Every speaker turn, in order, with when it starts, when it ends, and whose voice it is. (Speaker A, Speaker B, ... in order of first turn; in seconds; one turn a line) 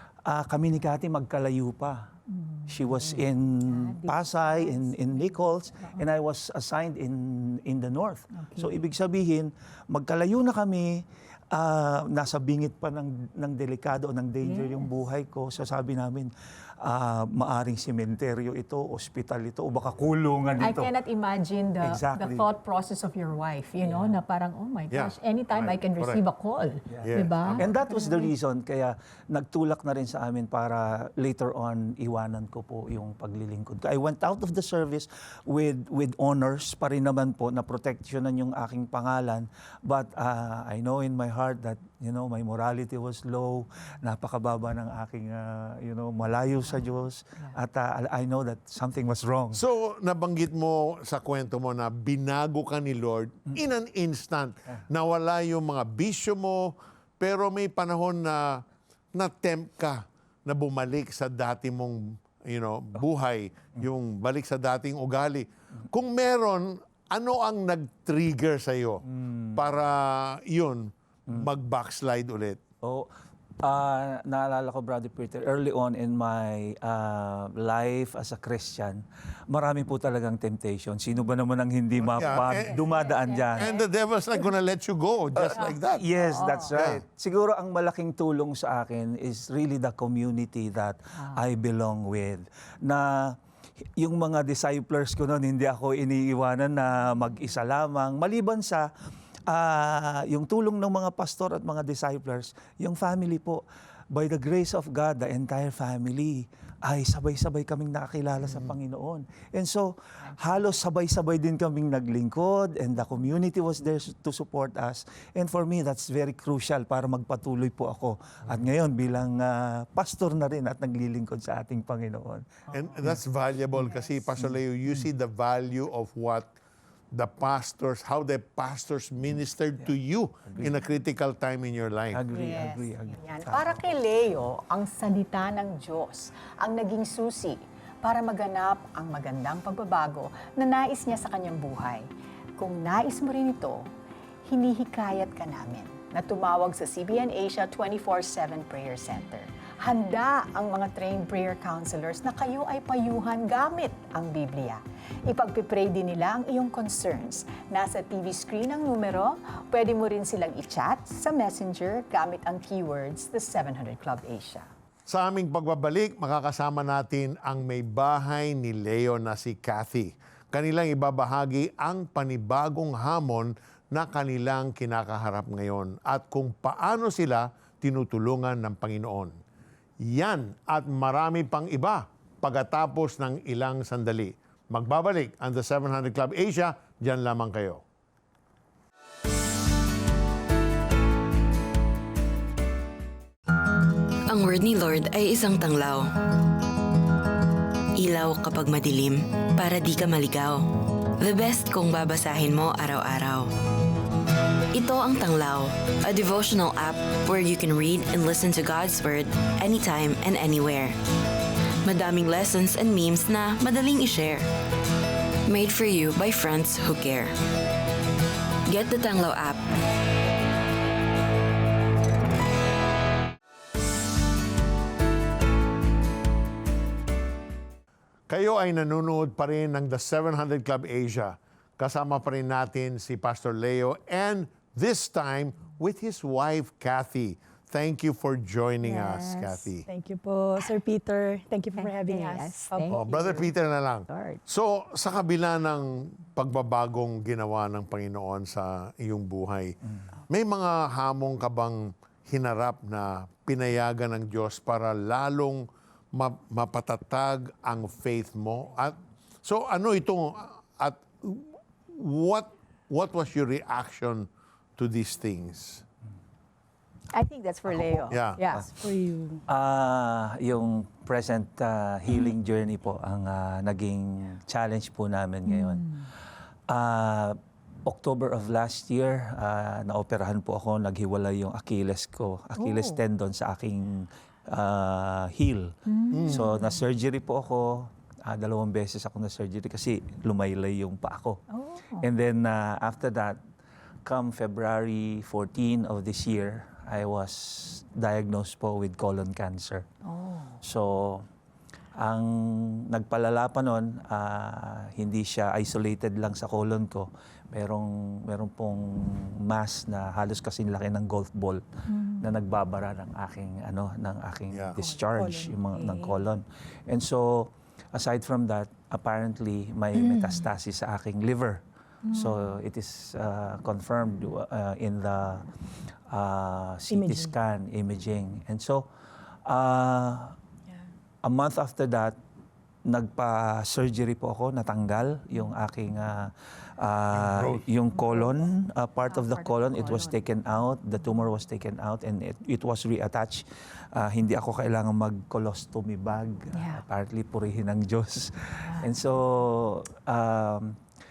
Speaker A: 0.3-2.1
Speaker B: 2.3-6.0
Speaker A: 2.7-20.9
Speaker B: 8.3-8.8
Speaker B: 14.4-14.9
Speaker B: 20.6-28.3
Speaker A: 21.8-22.5
Speaker A: 23.8-24.2
Speaker C: 24.9-26.2
Speaker A: 26.9-49.6
Speaker C: 27.0-27.7
Speaker C: 49.5-69.0
Speaker A: 69.1-69.7
Speaker C: 69.6-72.6
Speaker A: 72.8-73.1
Speaker A: 73.6-83.7
Speaker C: 82.0-83.0
Speaker B: 82.2-83.9
Speaker C: 83.6-86.1
Speaker A: 85.4-93.4
Speaker B: 85.5-86.7
Speaker C: 86.7-87.0
Speaker A: 94.0-98.9
Speaker A: 99.5-122.5
Speaker C: 122.7-126.5
Speaker C: 127.1-132.2
Speaker A: 130.5-130.8
Speaker A: 132.1-134.0
Speaker B: 132.3-143.9
Speaker B: 144.5-164.7
Speaker C: 165.1-179.4
Speaker C: 180.0-187.8
Speaker D: 194.3-196.1
Speaker D: 198.0-200.7
Speaker D: 201.2-203.5
Speaker D: 204.7-211.0
Speaker D: 211.8-214.5
Speaker D: 215.5-217.3
Speaker D: 218.7-219.6
Speaker C: 228.3-239.9
Speaker B: 238.8-239.7
Speaker E: 239.9-243.1
Speaker B: 241.8-243.5
Speaker C: 242.9-249.8
Speaker B: 244.1-244.4
Speaker C: 250.3-265.8
Speaker B: 267.1-268.9
Speaker C: 267.7-268.4
Speaker E: 268.8-269.4
Speaker A: 269.5-275.9
Speaker B: 275.5-276.1
Speaker A: 276.7-285.8
Speaker B: 282.6-283.0
Speaker B: 285.9-286.6
Speaker C: 286.1-286.6
Speaker A: 286.3-291.4
Speaker B: 291.5-292.0
Speaker A: 292.0-293.4
Speaker A: 294.1-299.9
Speaker B: 300.0-300.6
Speaker A: 300.6-301.3
Speaker A: 302.0-311.6
Speaker B: 311.9-312.3
Speaker A: 312.2-325.4
Speaker C: 314.5-314.8
Speaker E: 315.1-315.5
Speaker B: 315.7-316.1
Speaker E: 320.0-320.3
Speaker B: 322.1-322.4
Speaker A: 326.1-328.9
Speaker E: 326.9-327.3
Speaker A: 329.5-330.4
Speaker A: 331.2-332.2
Speaker A: 332.9-350.8
Speaker C: 337.1-337.6
Speaker B: 339.1-340.2
Speaker B: 346.6-346.8